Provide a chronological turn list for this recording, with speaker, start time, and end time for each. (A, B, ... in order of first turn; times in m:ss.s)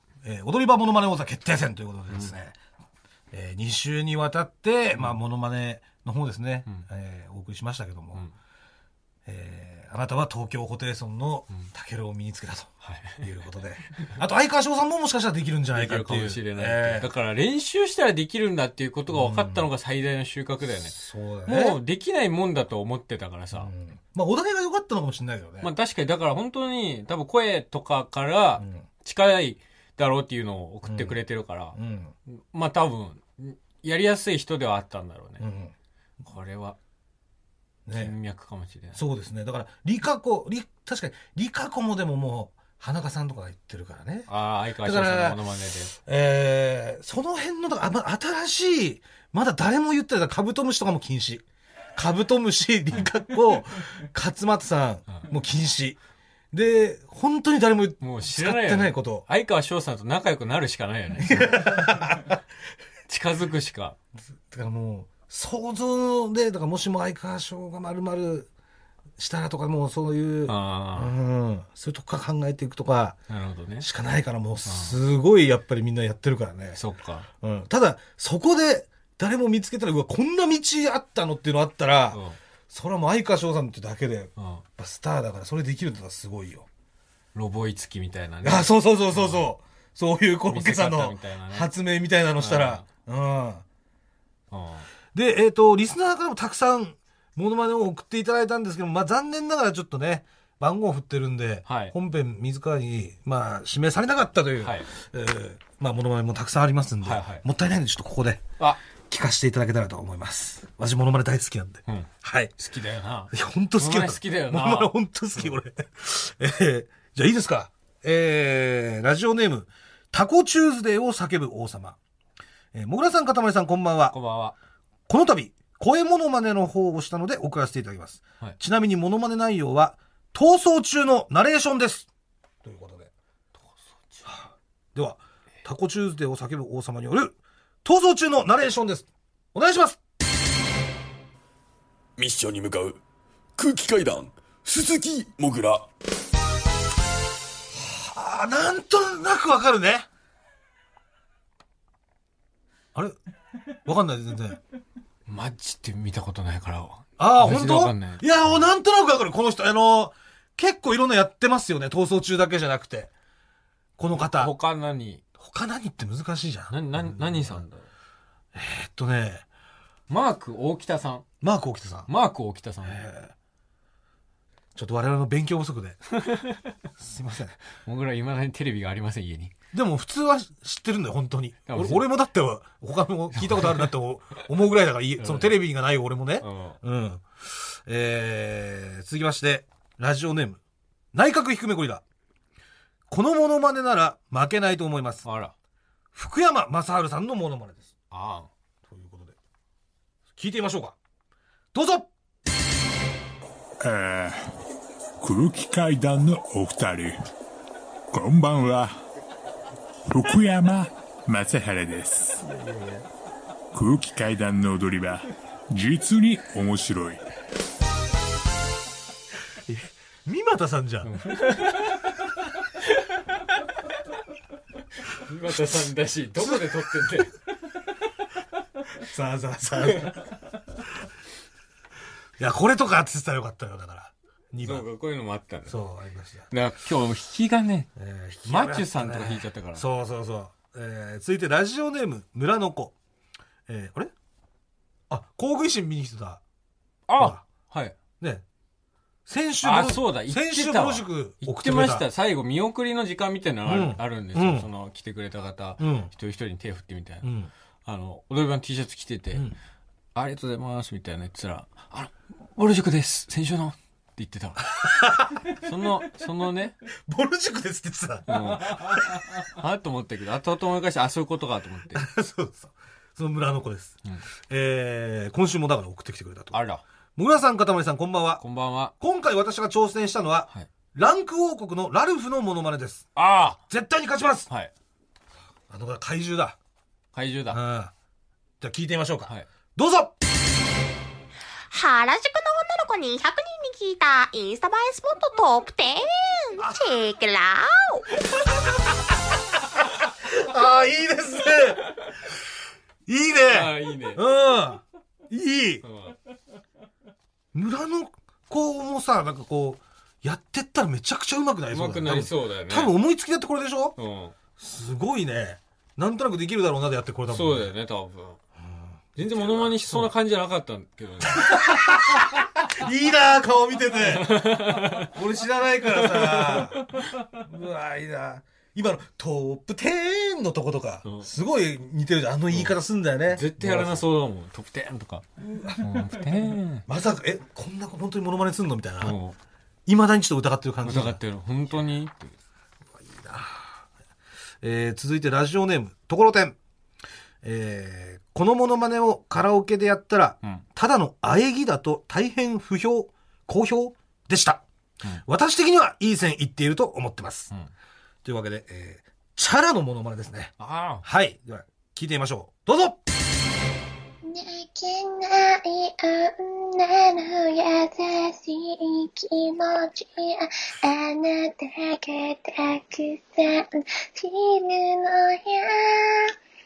0:00.2-0:02.6 A
0:03.3-0:08.3 A
0:09.2-0:17.1 A
0:12.8-0:13.2 B
0:15.7-0:20.9 B
0:19.1-0:19.7 A
0:20.8-0:21.8 A
0:21.5-0:23.7 B
0:23.6-0:25.7 A
0:25.6-0:31.8 B
0:28.6-0:28.9 A
0:30.8-0:31.2 A
0:31.7-0:32.1 A
0:32.3-0:35.4 B
0:35.4-0:35.7 A
0:36.2-0:36.8 B
0:37.9-0:38.1 A
0:37.9-0:39.0 B
0:38.9-0:44.3 A
0:44.3-0:45.9 B
0:44.8-0:51.4 A
0:51.9-0:56.0 A
0:56.5-0:59.2 A
0:58.0-1:02.1 B
1:01.2-1:02.4 A
1:03.1-1:04.0 B
1:04.5-1:08.5 A
1:09.2-1:13.2 A
1:10.4-1:11.1 B
1:13.3-1:13.9 B
1:13.8-1:16.8 A
1:14.7-1:15.0 B
1:16.8-1:17.3 B
1:17.4-1:26.7 A
1:22.1-1:22.4 B
1:24.4-1:24.6 B
1:27.3-1:29.4 B
1:28.4-1:33.6 A
1:30.5-1:31.7 B
1:32.4-1:32.9 B
1:34.5-1:34.9 B
1:35.1-1:48.5 A
1:41.7-1:42.0 B
1:44.6-1:44.9 B
1:47.0-1:47.4 B
1:49.1-1:52.5 A
1:51.9-1:55.6 B
1:53.3-2:02.0 A
2:02.7-2:04.1 A
2:04.1-2:04.6 B
2:05.1-2:12.1 A
2:12.6-2:13.1 A
2:13.6-2:14.3 B
2:14.2-2:20.0 A
2:22.2-2:23.0 C
2:23.6-2:25.9 C
2:27.7-2:30.1 A
2:33.8-2:34.6 A
2:35.3-2:38.2 B
2:37.2-2:43.1 A
2:44.0-2:44.5 A
2:44.1-2:45.2 B
2:45.4-2:47.6 A
2:46.7-2:47.9 B
2:48.5-2:49.4 A
2:50.1-2:51.2 B
2:51.4-2:52.1 A
2:52.1-2:53.0 B
2:52.8-2:53.3 A
2:54.7-2:56.0 A
2:56.2-2:56.7 B
2:57.0-2:57.6 A
2:57.8-2:59.5 B
2:59.7-3:10.6 A
3:01.7-3:02.0 B
3:03.4-3:03.9 B
3:05.2-3:05.6 B
3:06.4-3:06.8 B
3:11.1-3:12.0 A
3:13.1-3:15.2 A
3:15.2-3:15.5 B
3:16.1-3:17.9 A
3:18.1-3:18.5 B
3:18.8-3:19.4 A
3:20.4-3:21.0 A
3:21.7-3:22.1 A
3:23.8-3:24.5 D
3:25.2-3:27.2 D
3:28.1-3:29.0 D
3:30.1-3:32.4 D
3:32.4-3:33.0 B
3:33.7-3:37.2 D
3:39.7-3:41.3 A
3:41.0-3:43.2 B
3:45.1-3:47.4 B
3:49.0-3:50.3 A
3:52.4-3:54.9 A
3:54.6-3:55.8 B
3:55.7-3:56.5 A
3:56.5-3:57.9 B
3:58.0-4:02.9 A
3:58.4-3:59.8 B
4:03.7-4:04.1 A
4:05.1-4:06.4 A
4:07.1-4:08.0 B
4:07.2-4:07.4 A
4:08.2-4:08.4 A
4:09.3-4:12.1 A
4:09.6-4:17.3 B
4:13.6-4:14.7 A
4:15.8-4:16.1 A
4:17.2-4:17.5 A
4:17.8-4:19.4 B
4:20.1-4:24.7 B
4:24.8-4:25.6 A
4:25.5-4:26.8 B
4:27.1-4:29.2 A
4:28.3-4:32.1 B
4:31.9-4:34.0 A
4:34.5-4:36.6 A
4:36.5-4:36.8 B
4:37.2-4:38.4 A
4:38.4-4:38.9 B
4:39.0-4:43.1 A
4:43.2-4:43.6 B
4:43.7-4:44.5 A
4:45.7-4:46.6 A
4:47.1-4:47.6 B
4:47.5-4:47.9 A
4:48.6-4:50.2 A
4:51.7-4:58.1 E
5:00.0-5:02.2 A
5:03.1-5:05.8 A
5:03.4-5:04.2 B
5:05.8-5:06.2 B
5:07.5-5:14.0 A
5:11.7-5:12.9 B
5:14.0-5:14.3 B
5:14.6-5:17.7 A
5:17.3-5:18.4 B
5:18.6-5:20.1 A
5:19.2-5:21.9 B
5:21.2-5:34.0 A
5:24.0-5:25.1 B
5:26.0-5:27.2 B
5:31.0-5:31.3 B
5:33.3-5:35.2 B
5:35.4-5:36.2 A
5:35.8-5:36.8 B
5:36.9-5:39.2 A
5:39.0-5:39.4 B
5:39.8-5:41.2 A
5:40.8-5:42.4 B
5:43.0-5:43.8 A
5:44.6-5:46.6 A
5:47.4-5:54.6 A
5:55.2-5:57.5 A
5:58.2-6:03.0 A
6:00.6-6:01.1 B
6:04.2-6:16.3 F